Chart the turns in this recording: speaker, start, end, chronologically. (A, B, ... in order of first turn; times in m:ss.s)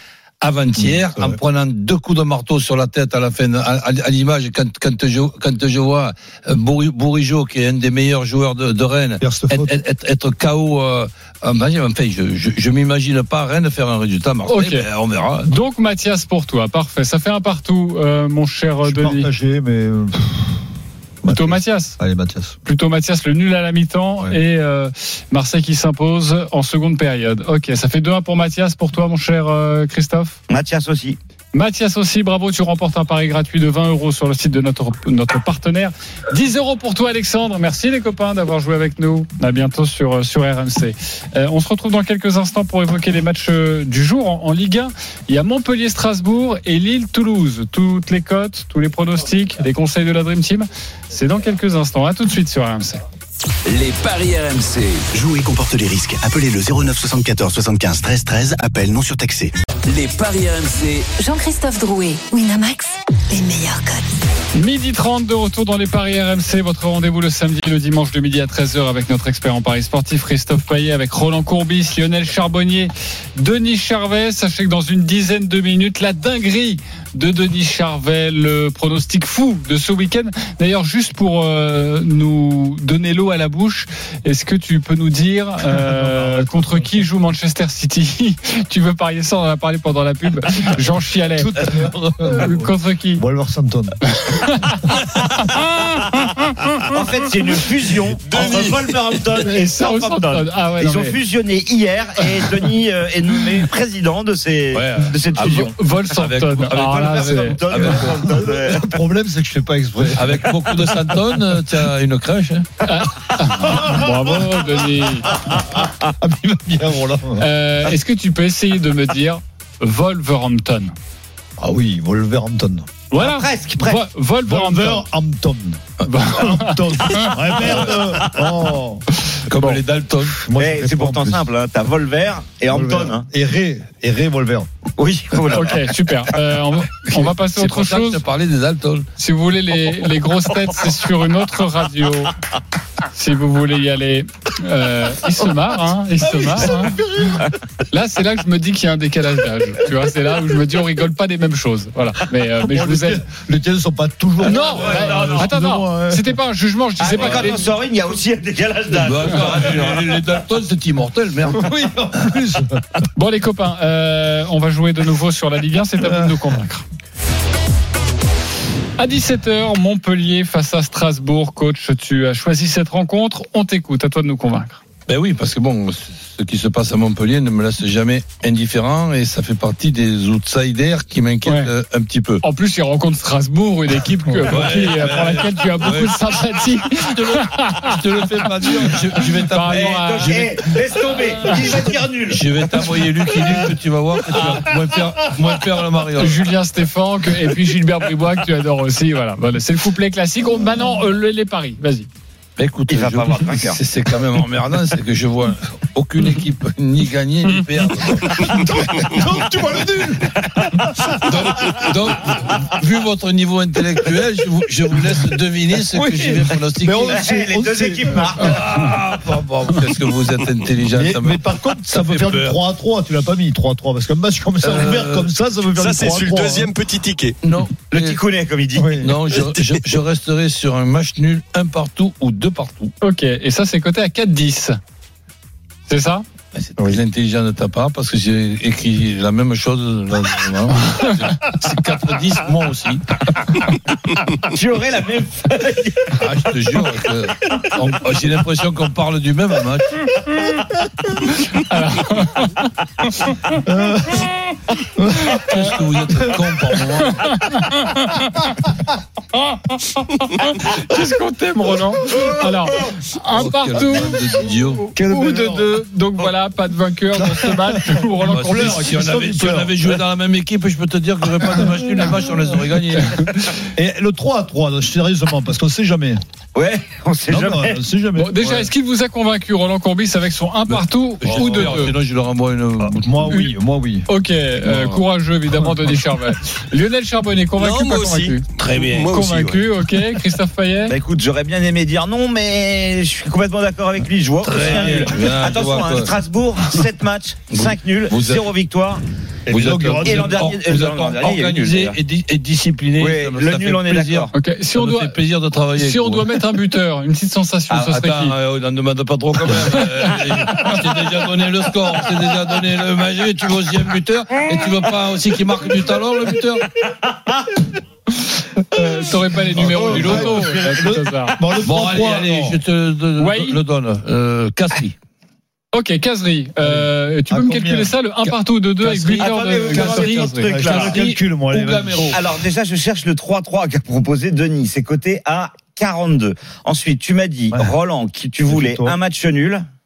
0:00.4-0:15.5 A
0:00.8-0:01.4 B
0:09.2-0:09.7 B
0:14.5-0:14.9 C
0:15.5-0:19.3 C
0:18.8-0:20.6 B
0:21.2-0:22.6 B
0:21.3-0:22.0 C
0:22.6-0:30.4 C
0:30.5-0:31.2 D
0:31.5-0:53.0 C
0:53.6-0:55.1 E
0:55.1-0:59.5 F
0:59.8-1:01.1 E
1:01.2-1:04.0 G
1:04.5-1:31.5 C
1:25.7-1:26.9 B
1:31.3-1:34.0 B
1:32.3-1:33.2 C
1:34.1-1:34.8 C
1:36.9-1:45.7 D
1:38.3-1:38.9 H
1:38.4-1:38.7 C
1:39.4-1:41.2 C
1:44.7-1:48.4 A
1:45.4-1:47.6 C
1:46.8-1:48.9 D
1:47.9-1:51.0 B
1:50.1-1:52.7 A
1:52.8-1:55.4 C
1:56.2-1:57.5 B
1:57.4-2:01.0 C
2:01.6-2:02.9 B
2:03.1-2:05.0 C
2:03.2-2:04.0 D
2:04.4-2:11.5 B
2:06.0-2:07.3 C
2:07.2-2:08.0 D
2:09.5-2:10.4 A
2:10.6-2:13.2 D
2:12.7-2:14.7 B
2:15.0-2:15.9 D
2:15.5-2:18.2 C
2:17.1-2:19.0 A
2:19.2-2:22.3 C
2:23.1-2:33.2 C
2:32.6-2:36.3 B
2:34.4-2:37.7 C
2:34.6-2:35.4 D
2:37.0-2:40.4 D
2:38.9-2:41.7 A
2:41.5-2:43.0 B
2:43.2-2:46.8 C
2:46.0-2:46.6 B
2:49.0-2:54.8 C
2:55.1-3:02.4 A
3:02.4-3:08.0 C
3:04.5-3:06.1 A
3:07.0-3:10.6 A
3:08.9-3:10.4 C
3:09.7-3:12.4 D
3:12.3-3:16.4 A
3:16.2-3:22.1 C
3:22.6-3:28.6 A
3:22.9-3:23.8 D
3:28.3-3:31.7 B
3:31.2-3:37.2 A
3:35.9-3:38.6 B
3:37.0-3:38.9 D
3:38.4-3:42.6 A
3:40.9-3:46.7 B
3:44.6-3:45.3 A
3:45.8-3:47.4 H
3:47.4-3:48.2 A
3:47.9-3:49.4 D
3:48.8-3:49.1 B
3:49.0-3:52.9 A
3:53.0-3:54.8 C
3:55.9-3:56.2 C
3:56.5-4:03.2 A
4:04.5-4:06.2 D
4:06.2-4:10.0 A
4:11.5-4:12.7 C
4:13.5-4:15.7 B
4:15.4-4:17.2 A
4:17.0-4:18.5 C
4:19.5-4:24.2 C
4:23.3-4:24.9 A
4:24.9-4:25.7 B
4:25.0-4:28.9 C
4:27.2-4:30.0 B
4:28.3-4:33.3 A
4:31.4-4:32.2 B
4:33.7-4:36.2 B
4:36.5-4:37.8 D
4:37.3-4:38.7 B
4:38.2-4:41.9 C
4:40.7-4:43.1 A
4:41.3-4:41.8 B
4:42.8-4:44.1 B
4:44.1-4:48.4 C
4:44.6-4:45.0 A
4:47.6-4:49.6 H
4:48.6-4:49.2 A
4:49.0-4:51.0 C
4:50.9-4:59.0 D
4:54.4-4:56.1 A
4:57.5-4:58.4 A
4:59.5-5:00.6 B
4:59.5-5:06.4 A
5:00.0-5:02.0 D
5:03.0-5:04.3 D
5:04.3-5:05.2 C
5:05.8-5:08.3 C
5:07.7-5:16.7 A
5:18.7-5:21.4 C
5:18.8-5:22.6 B
5:19.8-5:20.4 A
5:21.6-5:24.9 A
5:23.2-5:23.6 C
5:25.7-5:30.5 C
5:26.6-5:27.9 B
5:28.8-5:32.2 A
5:29.1-5:31.0 D
5:29.8-5:32.2 B
5:32.1-5:39.6 D
5:38.5-5:39.0 B